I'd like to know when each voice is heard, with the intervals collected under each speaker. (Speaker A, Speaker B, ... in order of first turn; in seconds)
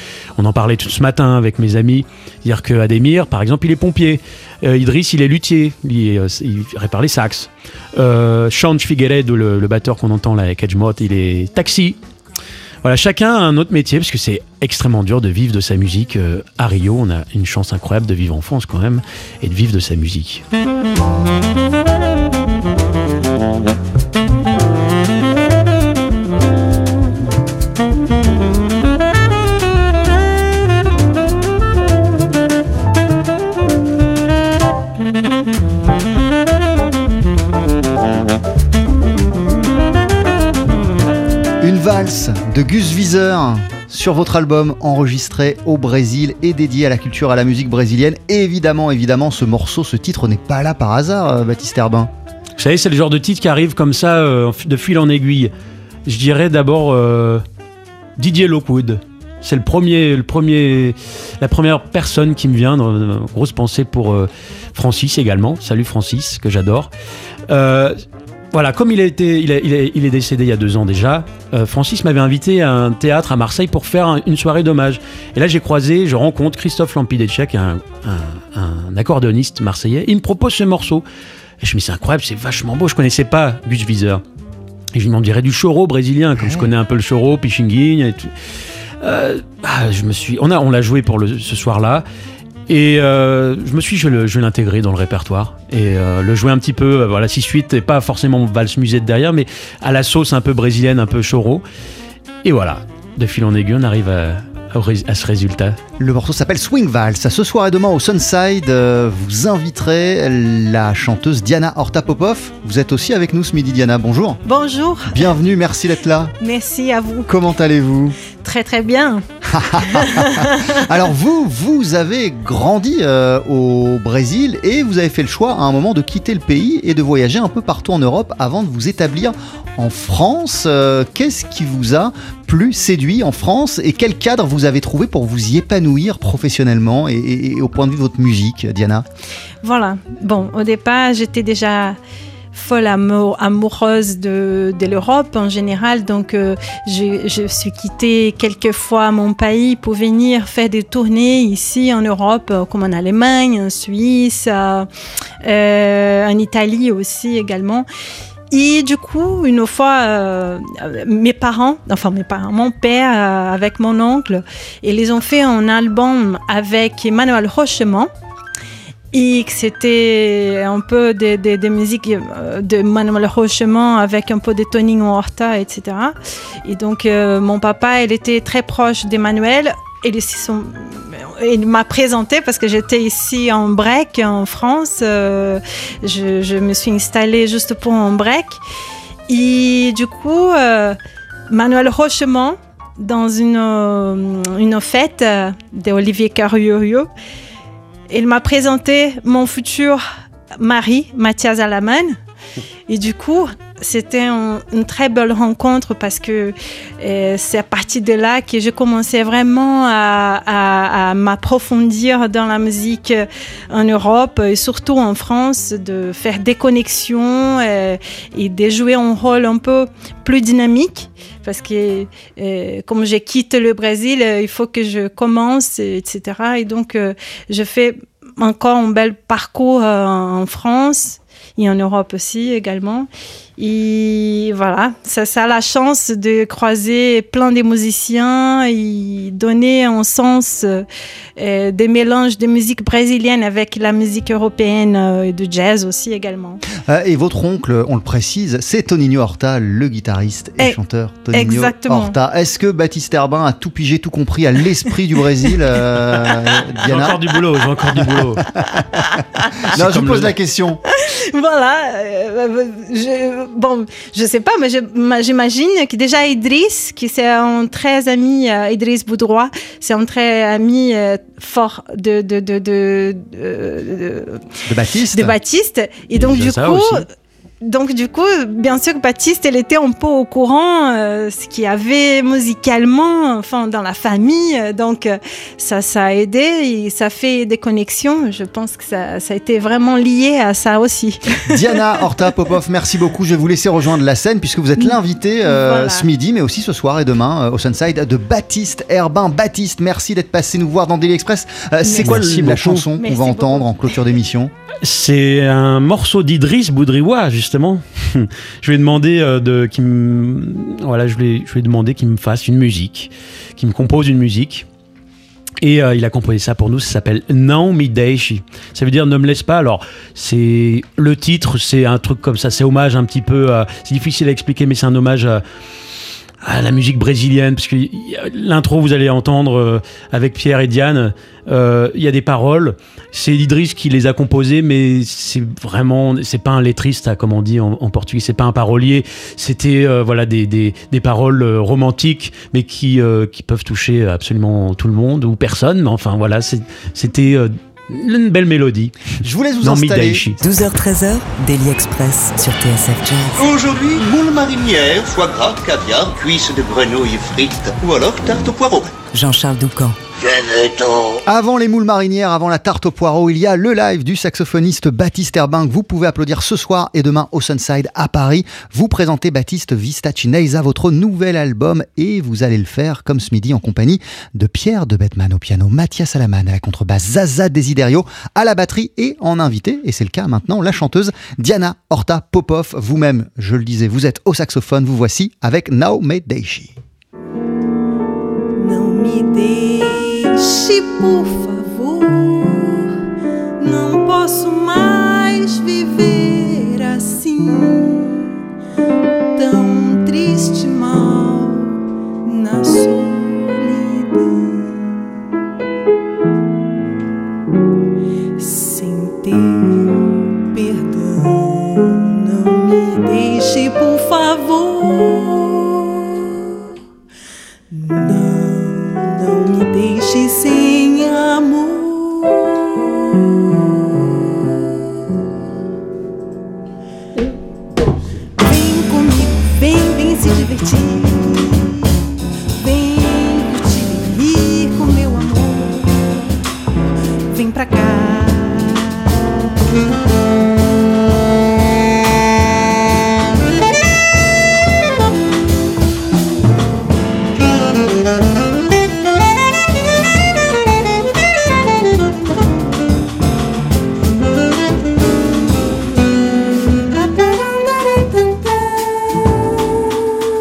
Speaker A: 0.4-12.0, 12.8-20.4, 52.6-55.5, 56.0-57.4, 58.2-66.9, 67.5-68.0, 68.5-81.0, 81.6-84.2, 84.9-88.3, 89.0-92.0, 92.7-101.6, 102.4-105.8, 256.8-258.4, 259.7-260.3, 276.1-277.0, 301.9-302.9, 304.8-314.6, 315.6-325.4, 326.4-350.4
Speaker B: 41.6-52.1, 86.3-86.7, 106.0-114.4, 115.1-116.3, 117.3-118.2, 119.5-139.1, 246.9-257.2, 259.7-260.8, 274.7-275.4, 291.5-304.5, 349.2-350.2, 361.2-386.7
Speaker C: 114.4-115.3, 116.4-117.3, 118.2-119.2, 119.8-120.8, 139.6-142.0, 142.5-154.9, 155.4-157.9, 158.5-168.1, 169.1-188.6, 189.3-191.0, 191.5-197.1, 198.1-200.0, 200.6-202.2, 202.9-240.8, 241.4-246.6, 251.3-252.2, 260.9-274.4, 275.1-277.1, 277.6-292.1, 294.8-296.1, 301.9-303.7, 388.6-392.9, 393.6-398.3, 399.3-405.0, 408.4-416.3, 417.7-422.9, 428.4-431.9, 432.5-436.2, 437.3-439.0, 456.8-459.6
Speaker D: 350.4-353.4, 359.1-360.0
Speaker E: 353.4-358.9, 360.2-361.2